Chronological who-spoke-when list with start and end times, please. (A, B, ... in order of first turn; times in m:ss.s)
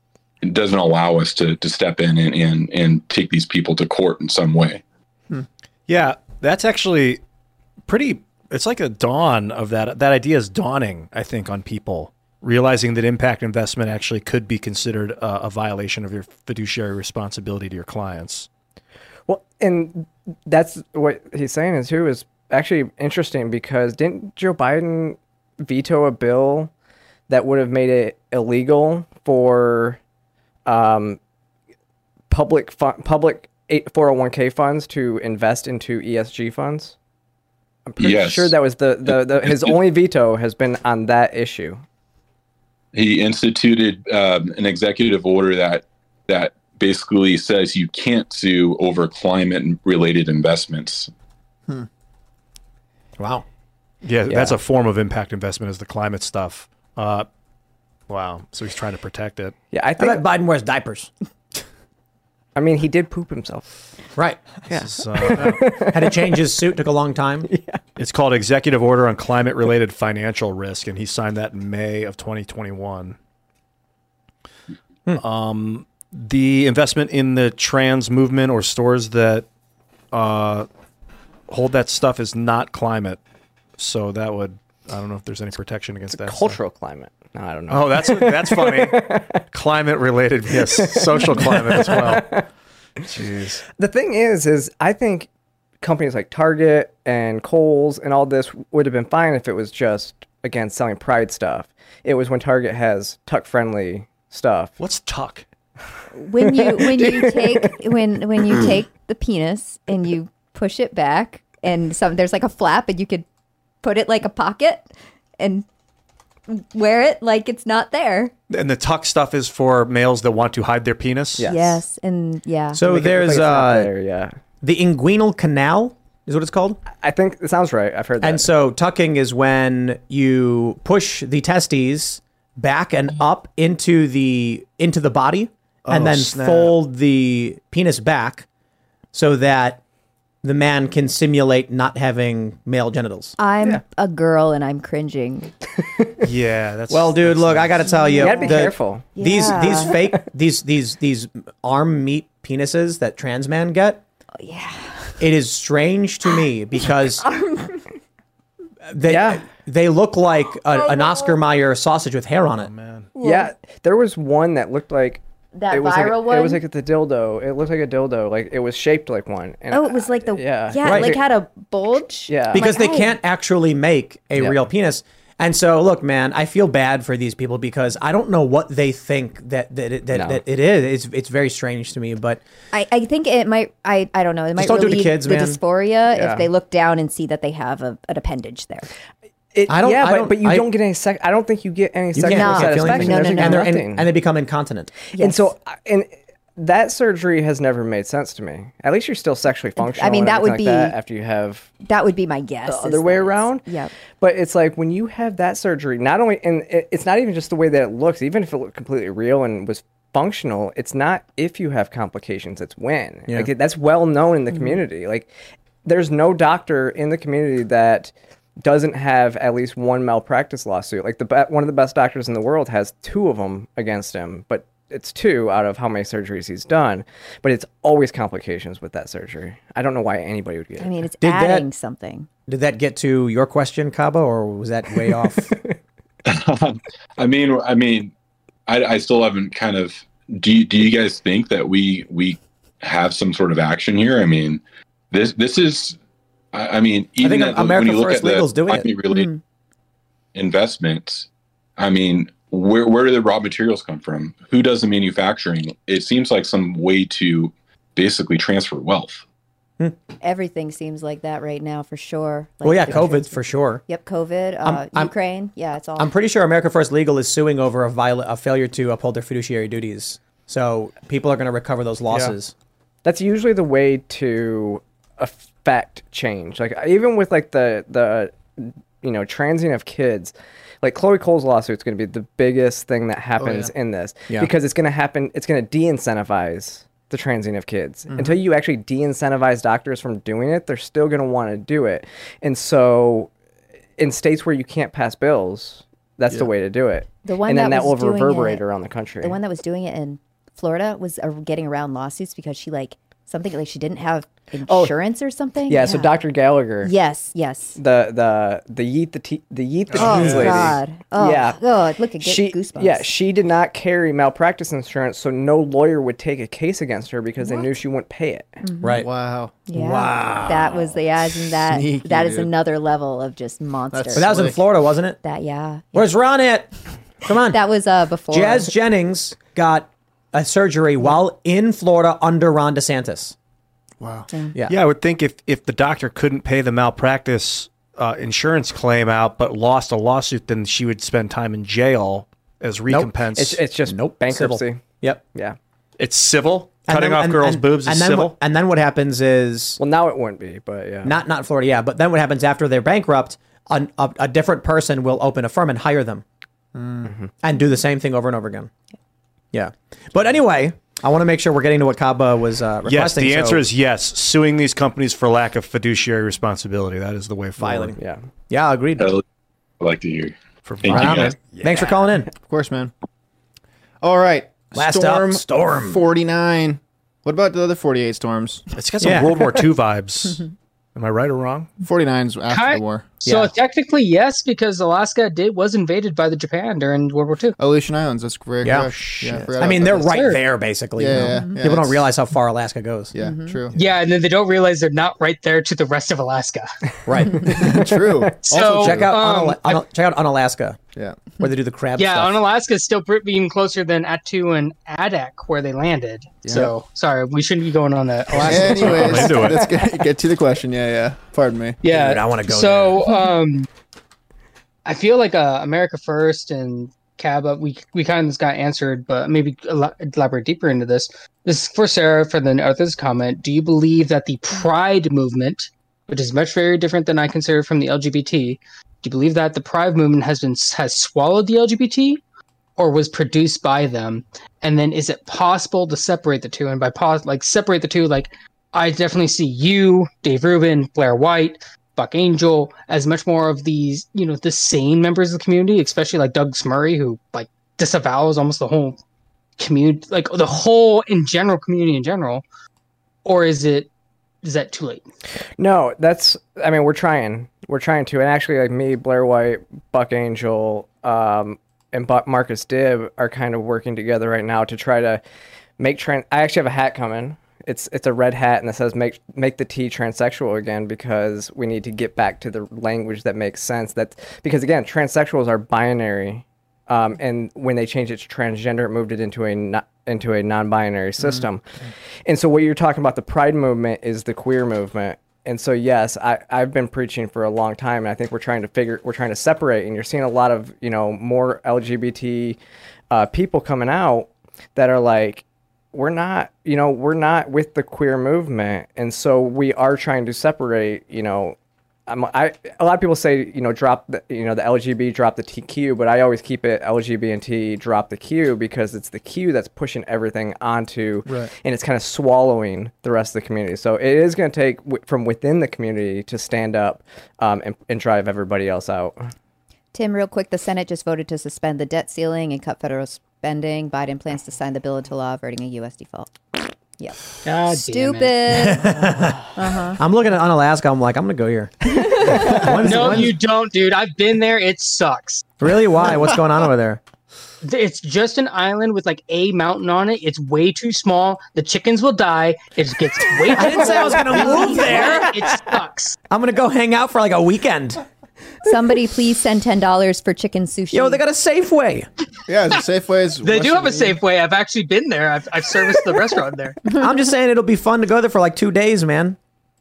0:00.4-0:04.8 A
0:05.9-0:07.2 B
0:07.9-0:18.5 B
0:19.3-0:26.7 C
0:27.3-0:30.0 C
0:30.6-0:31.2 C
0:32.3-0:37.0 C
0:37.9-0:41.8 C
0:38.0-0:39.8 A
0:42.9-0:51.1 A
0:53.2-0:53.4 D
0:54.0-0:57.3 B
0:54.3-0:54.5 C
0:58.1-0:59.6 B
0:59.7-1:00.2 C
1:00.0-1:01.1 D
1:02.5-1:03.7 C
1:04.2-1:04.4 D
1:04.7-1:06.4 C
1:04.7-1:05.7 B
1:05.9-1:07.5 D
1:07.4-1:07.8 C
1:08.0-1:13.2 B
1:15.2-1:19.4 B
1:20.1-1:20.7 B
1:21.5-1:23.2 B
1:23.8-1:26.6 B
1:26.1-1:29.4 C
1:27.7-1:32.3 B
1:30.5-1:32.4 C
1:33.1-1:33.6 B
1:33.8-1:35.3 C
1:35.8-1:44.8 C
1:44.8-1:45.4 B
1:46.1-1:53.2 E
1:46.4-1:47.8 C
1:53.8-1:55.6 E
1:56.5-1:58.3 E
1:58.5-2:01.4 B
2:01.4-2:01.8 C
2:01.4-2:02.8 E
2:02.7-2:03.9 D
2:02.8-2:04.3 C
2:04.6-2:06.8 D
2:06.9-2:08.5 C
2:08.2-2:18.5 D
2:15.8-2:16.7 B
2:19.1-2:19.8 D
2:20.4-2:23.4 D
2:23.4-2:25.5 E
2:25.8-2:26.2 C
2:26.2-2:27.8 B
2:26.9-2:34.0 D
2:27.9-2:28.6 E
2:28.2-2:30.1 C
2:29.1-2:29.9 E
2:34.4-2:35.3 E
2:35.2-2:37.2 D
2:37.2-2:37.8 E
2:38.9-2:42.7 D
2:39.1-2:39.4 C
2:40.7-2:41.4 E
2:42.6-2:43.1 B
2:43.1-2:43.5 E
2:43.2-2:51.2 C
2:45.5-2:46.6 E
2:49.7-2:53.2 E
2:50.8-2:51.2 D
2:52.3-2:52.6 C
2:52.5-3:02.4 D
3:00.1-3:00.4 C
3:02.7-3:08.9 E
3:04.6-3:05.6 D
3:06.1-3:06.5 C
3:09.5-3:14.1 C
3:09.7-3:10.7 D
3:12.2-3:14.9 D
3:12.2-3:13.7 E
3:15.1-3:15.5 E
3:15.1-3:21.7 C
3:19.8-3:21.0 E
3:21.8-3:23.9 E
3:22.6-3:23.7 C
3:24.2-3:35.3 C
3:34.5-3:34.8 E
3:35.8-3:50.9 C
3:50.8-3:52.3 E
3:51.2-3:51.7 D
3:52.5-3:55.5 D
3:55.4-3:55.8 C
3:56.2-3:58.1 A
3:58.7-4:06.0 A
4:06.5-4:09.3 A
4:07.2-4:08.9 D
4:09.1-4:09.4 E
4:10.3-4:19.2 A
4:20.2-4:26.1 E
4:22.6-4:23.8 D
4:24.6-4:25.1 D
4:26.0-4:32.5 D
4:33.0-4:53.3 C
4:54.0-4:59.4 C
4:57.2-4:58.6 E
4:59.2-5:06.2 E
5:04.7-5:04.9 C
5:05.7-5:06.9 C
5:06.8-5:07.8 E
5:07.8-5:11.6 C
5:10.0-5:13.1 E
5:10.1-5:10.7 F
5:12.2-5:18.6 C
5:18.6-5:19.0 E
5:18.8-5:19.1 D
5:18.9-5:19.5 F
5:19.6-5:24.3 E
5:19.7-5:20.8 D
5:21.5-5:22.5 F
5:23.9-5:24.6 F
5:24.1-5:25.2 D
5:25.2-5:25.9 E
5:25.9-5:26.7 D
5:27.2-5:27.6 D
5:27.5-5:28.7 E
5:28.3-5:33.3 D
5:34.0-5:34.3 F
5:34.3-5:34.5 E
5:34.7-5:43.6 B
5:43.4-5:44.8 C
5:43.8-5:45.2 D
5:46.0-5:48.3 B
5:46.9-5:49.8 D
5:49.8-5:51.2 C
5:51.0-5:56.2 D
5:56.7-5:57.1 F
5:57.0-5:57.3 C
5:57.4-5:58.7 D
5:59.5-6:03.6 D
6:02.8-6:08.0 B
6:07.6-6:08.0 D
6:08.0-6:08.2 C
6:08.5-6:09.1 D
6:09.8-6:11.4 A
6:10.6-6:12.2 B
6:10.9-6:12.3 D
6:12.4-6:12.9 F
6:14.0-6:18.6 F
6:14.7-6:16.0 D
6:18.7-6:21.7 B
6:19.0-6:19.4 D
6:21.8-6:23.2 F
6:22.5-6:27.6 G
6:23.2-6:23.5 D
6:27.6-6:30.3 F
6:28.6-6:33.1 D
6:30.1-6:30.4 G
6:31.0-6:32.1 F
6:31.3-6:31.6 E
6:33.1-6:33.8 F
6:33.2-6:33.6 E
6:33.7-6:36.8 G
6:37.0-6:37.8 D
6:37.3-6:38.5 C
6:37.4-6:39.1 F
6:38.4-6:39.8 G
6:38.5-6:40.8 D
6:40.9-6:41.3 F
6:41.4-6:42.4 D
6:42.0-6:49.4 G
6:46.4-6:46.7 F
6:48.4-6:51.8 F
6:48.9-6:49.7 B
6:51.8-6:53.7 G
6:51.9-6:53.0 D
6:54.8-7:12.2 G
7:12.8-7:29.0 G
7:29.6-7:32.4 G
7:33.2-7:33.9 G
7:34.4-7:35.0 G
7:35.6-7:45.2 C
7:45.8-8:12.6 C
8:13.1-8:21.6 C
8:22.1-8:39.3 C
8:31.2-8:31.5 F
8:39.9-8:46.5 E
8:47.0-8:48.9 E
8:47.4-8:48.7 G
8:48.5-8:49.4 D
8:49.5-8:50.0 E
8:50.0-8:53.4 D
8:51.8-8:52.6 E
8:52.7-8:55.5 G
8:55.6-8:57.0 D
8:57.6-9:06.2 G
9:03.5-9:05.4 D
9:06.3-9:08.0 D
9:08.6-9:11.2 E
9:10.9-9:12.1 D
9:12.5-9:14.2 F
9:13.4-9:16.8 G
9:16.9-9:19.4 D